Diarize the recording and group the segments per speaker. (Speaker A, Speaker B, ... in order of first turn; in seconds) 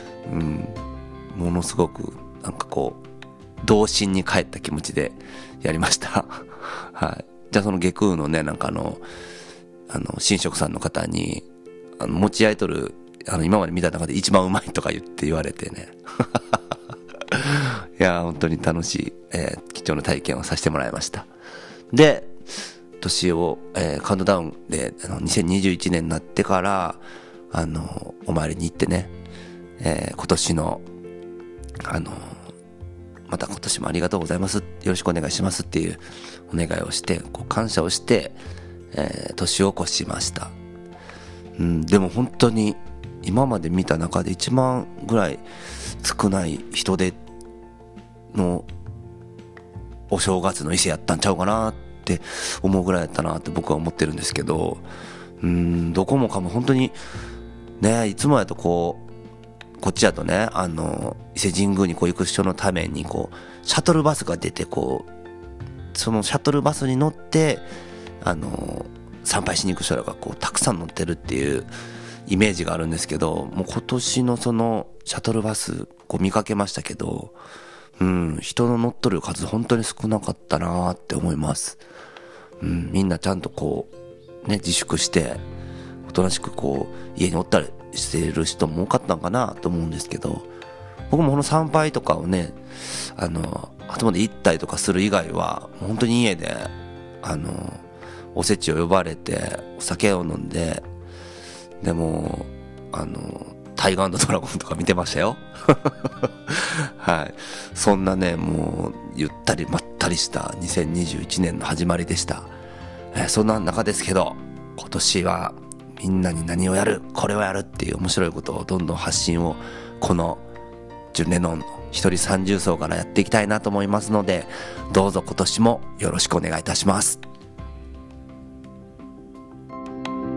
Speaker A: 0.2-3.0, 3.6-9.0, 9.9-11.4, 12.0-16.6, 17.2-21.3, 21.9-22.4, 23.0-29.1, 29.8-30.8, 31.8-32.4, 33.3-38.4, 38.9-40.5, 41.5-45.4, 46.0-47.2, 48.3-48.7, 50.1-54.8, 55.4-57.0, 57.8-59.1, 59.8-65.1, 65.9-67.7, 68.2-71.7, 72.2-77.3, 78.0-81.8, 82.6-83.9, 84.4-85.4, 86.0-90.5, 91.1-100.8, 101.8-112.5, 113.1-120.4, 121.1-127.2